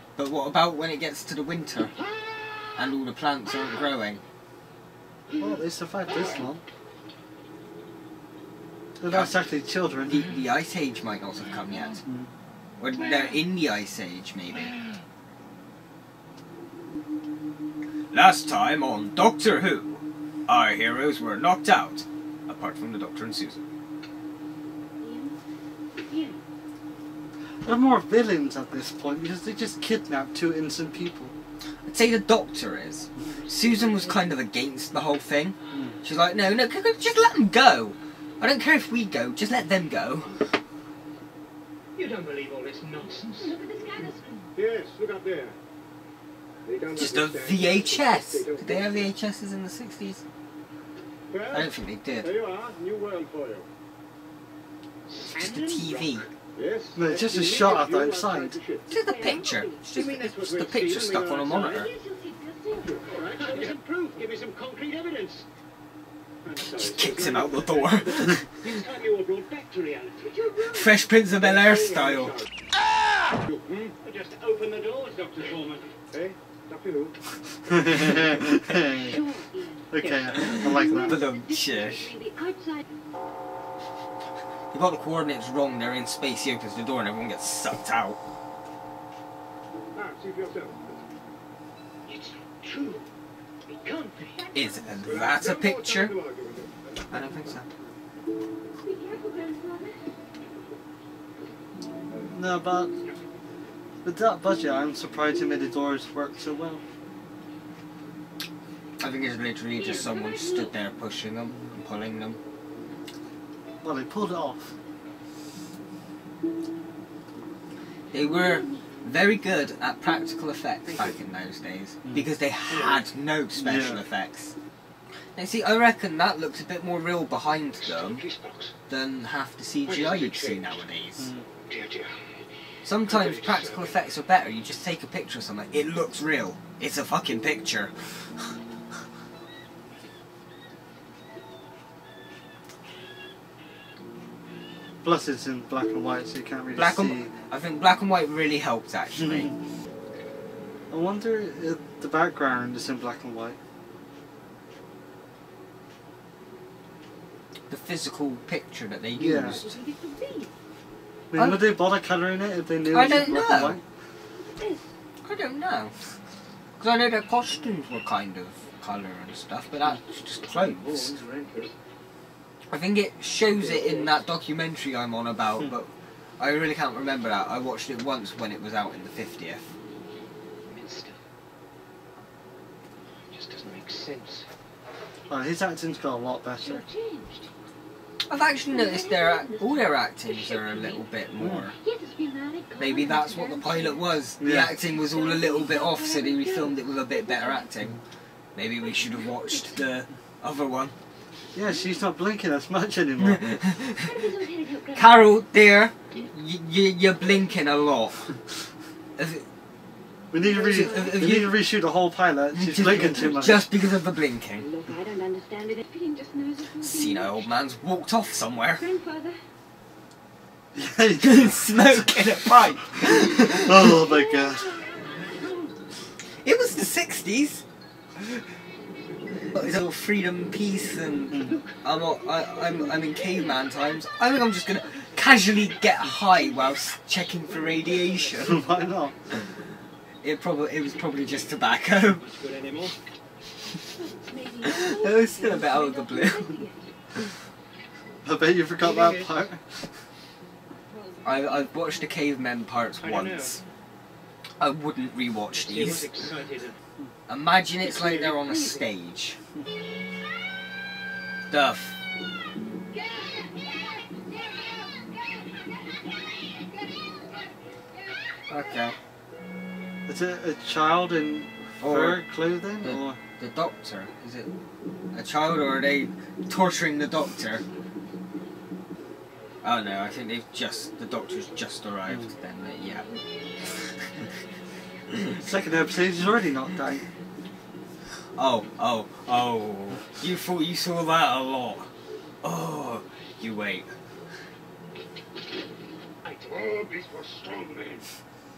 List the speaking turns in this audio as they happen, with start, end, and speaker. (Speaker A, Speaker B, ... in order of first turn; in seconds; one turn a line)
Speaker A: 0.2-1.9
Speaker B: 2.1-2.7
Speaker A: 2.8-4.2
Speaker C: 5.4-6.6
Speaker C: 9.0-10.3
Speaker A: 9.1-9.4
Speaker A: 10.1-12.0
Speaker C: 12.1-12.3
Speaker A: 12.8-14.8
Speaker A: 18.1-23.6
Speaker D: 25.0-25.4
Speaker D: 26.1-26.4
Speaker C: 27.6-31.3
Speaker A: 31.9-40.6
Speaker C: 35.7-36.0
Speaker B: 42.0-43.5
Speaker D: 43.4-44.5
Speaker B: 44.6-45.6
Speaker B: 46.7-49.0
Speaker A: 47.0-50.2
Speaker B: 51.3-51.7
Speaker A: 51.5-52.3
Speaker B: 52.2-53.7
Speaker B: 55.1-56.0
Speaker A: 55.3-56.3
Speaker B: 56.6-58.8
Speaker C: 57.0-58.6
Speaker A: 58.9-61.9
Speaker D: 58.9-59.8
Speaker B: 60.0-61.8
Speaker D: 61.6-63.7
Speaker B: 62.9-65.4
Speaker B: 66.5-70.3
Speaker A: 66.6-68.7
Speaker D: 70.3-70.9
Speaker A: 70.6-72.4
Speaker B: 71.4-72.4
Speaker B: 73.5-77.1
Speaker C: 77.7-79.2
Speaker D: 78.7-79.9
Speaker C: 79.9-81.2
Speaker A: 80.3-82.2
Speaker D: 80.6-82.8
Speaker A: 84.7-88.2
Speaker B: 90.0-91.0
Speaker B: 92.1-93.1
Speaker B: 93.7-94.4
Speaker D: 94.4-95.2
Speaker A: 94.5-96.2
Speaker B: 95.0-96.8
Speaker A: 97.1-97.7
Speaker D: 98.8-100.0
Speaker C: 102.3-102.9
Speaker C: 104.0-106.8
Speaker A: 109.0-112.4
Speaker D: 109.8-110.7
Speaker C: 113.8-114.8
Speaker A: 118.1-124.5
Speaker C: 122.0-123.0
Speaker C: 123.5-124.0
Speaker A: 125.3-128.3
Speaker B: 127.8-128.7
Speaker A: 128.9-131.3
Speaker B: 129.9-130.8
Speaker C: 131.2-131.5
Speaker B: 131.7-132.2
Speaker A: 132.8-138.6
Speaker B: 133.1-133.9
Speaker C: 145.0-147.3
Speaker A: 146.8-149.5
Speaker C: 149.2-149.6
Speaker C: 150.9-153.6
Speaker A: 157.7-159.8
Speaker C: 159.2-159.6
Speaker D: 159.6-160.5
Speaker C: 161.3-163.8
Speaker A: 161.3-161.6
Speaker A: 162.9-163.8
Speaker A: 165.2-165.9
Speaker A: 166.8-171.2
Speaker B: 171.0-171.7
Speaker A: 172.7-179.7
Speaker B: 180.7-181.2
Speaker B: 183.3-184.5
Speaker C: 185.3-186.8
Speaker D: 186.6-187.5
Speaker A: 188.3-191.8
Speaker D: 188.7-191.0
Speaker C: 191.4-191.7
Speaker D: 191.8-194.0
Speaker A: 192.8-198.0
Speaker C: 194.4-194.8
Speaker D: 194.9-197.7
Speaker A: 198.6-200.9
Speaker D: 199.0-199.6
Speaker C: 201.5-203.6
Speaker A: 203.2-204.1
Speaker D: 204.0-205.2
Speaker A: 204.9-208.4
Speaker A: 209.2-209.5
Speaker C: 210.3-213.6
Speaker A: 210.5-211.6
Speaker D: 210.6-210.9
Speaker A: 212.5-214.7
Speaker D: 214.6-217.3
Speaker A: 216.8-218.8
Speaker D: 218.8-219.4
Speaker C: 220.7-222.1
Speaker A: 221.2-224.0
Speaker C: 223.4-224.8
Speaker D: 224.0-224.9
Speaker A: 226.4-227.7
Speaker A: 229.5-238.7
Speaker C: 231.3-231.6
Speaker C: 238.4-239.2
Speaker A: 239.3-239.6
Speaker A: 240.2-242.3
Speaker B: 242.2-242.9
Speaker D: 244.0-246.9
Speaker A: 244.6-247.3
Speaker C: 248.2-250.0
Speaker B: 248.8-249.3
Speaker D: 250.9-251.5
Speaker A: 251.2-253.6
Speaker B: 253.0-253.5
Speaker A: 254.6-256.3
Speaker B: 255.6-256.8
Speaker A: 257.3-259.4
Speaker A: 261.5-262.0
Speaker D: 262.9-265.6
Speaker D: 266.3-267.4
Speaker A: 268.5-269.0
Speaker C: 270.1-273.2
Speaker A: 271.8-272.2
Speaker A: 272.8-274.5
Speaker A: 275.1-277.6
Speaker A: 279.6-283.1
Speaker C: 282.1-282.3
Speaker A: 283.7-284.3
Speaker A: 285.1-285.4
Speaker C: 285.4-287.1
Speaker A: 288.4-291.9
Speaker A: 292.4-293.9
Speaker B: 296.2-298.1